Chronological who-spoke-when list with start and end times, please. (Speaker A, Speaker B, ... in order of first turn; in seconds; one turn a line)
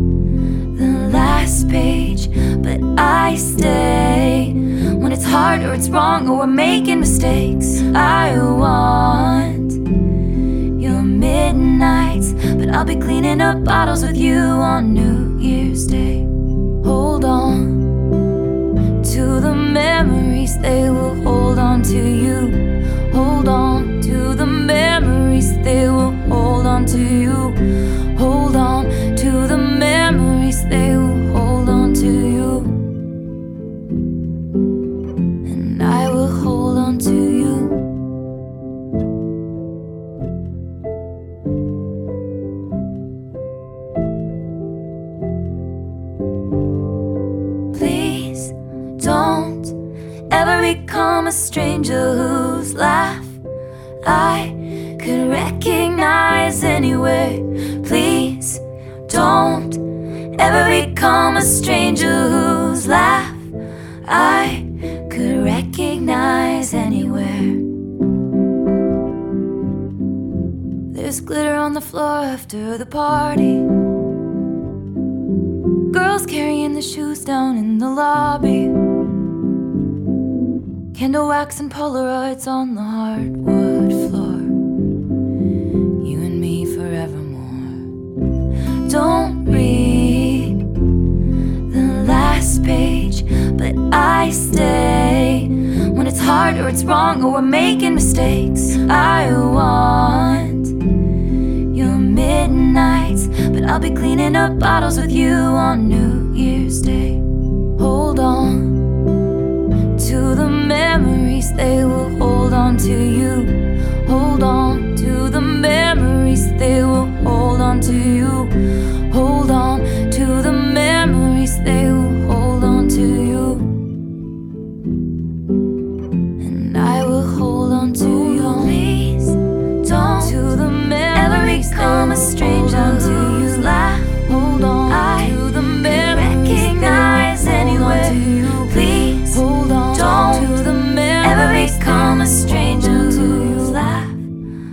Speaker A: 0.8-9.8
Speaker A: 10.8-16.3
Speaker A: 16.8-18.0
Speaker A: 19.0-32.9
Speaker A: 35.4-37.8
Speaker A: 47.7-49.8
Speaker A: 50.3-53.4
Speaker A: 54.0-59.8
Speaker A: 60.4-63.5
Speaker A: 64.0-67.6
Speaker A: 70.9-73.7
Speaker A: 75.9-78.7
Speaker A: 80.9-84.5
Speaker A: 86.0-87.9
Speaker A: 88.9-90.6
Speaker A: 91.7-100.8
Speaker A: 101.7-107.2
Speaker A: 107.8-109.0
Speaker A: 110.0-118.5
Speaker A: 119.1-123.7
Speaker A: 126.4-144.3